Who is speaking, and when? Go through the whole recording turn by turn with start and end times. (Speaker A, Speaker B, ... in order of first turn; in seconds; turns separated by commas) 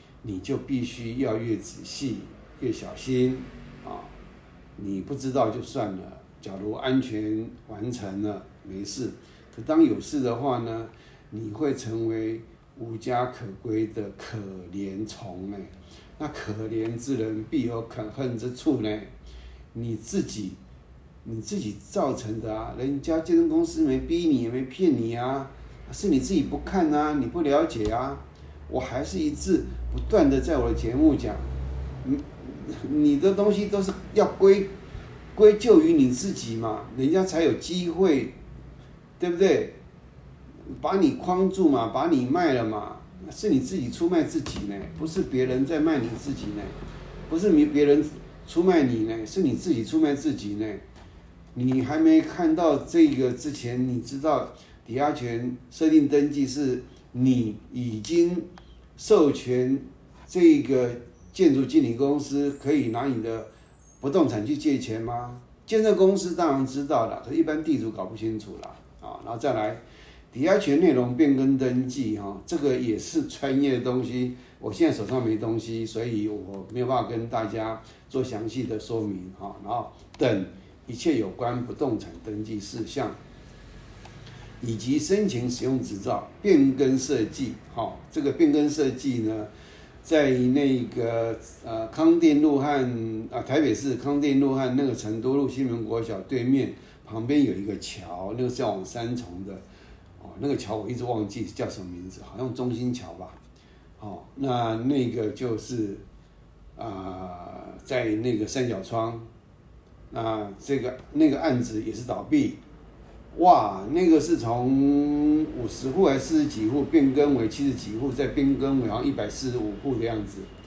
Speaker A: 0.2-4.1, Speaker A: 4.8-19.1, Speaker A: 19.7-20.6, Speaker A: 21.2-31.5, Speaker A: 32.0-34.7, Speaker A: 35.3-38.4, Speaker A: 39.2-39.8, Speaker A: 40.7-46.8, Speaker A: 47.3-50.8, Speaker A: 51.5-63.5, Speaker A: 64.0-83.2, Speaker A: 84.6-89.5, Speaker A: 90.0-99.6, Speaker A: 100.2-103.4, Speaker A: 104.0-106.0, Speaker A: 106.8-109.3, Speaker A: 110.1-112.6, Speaker A: 113.3-120.5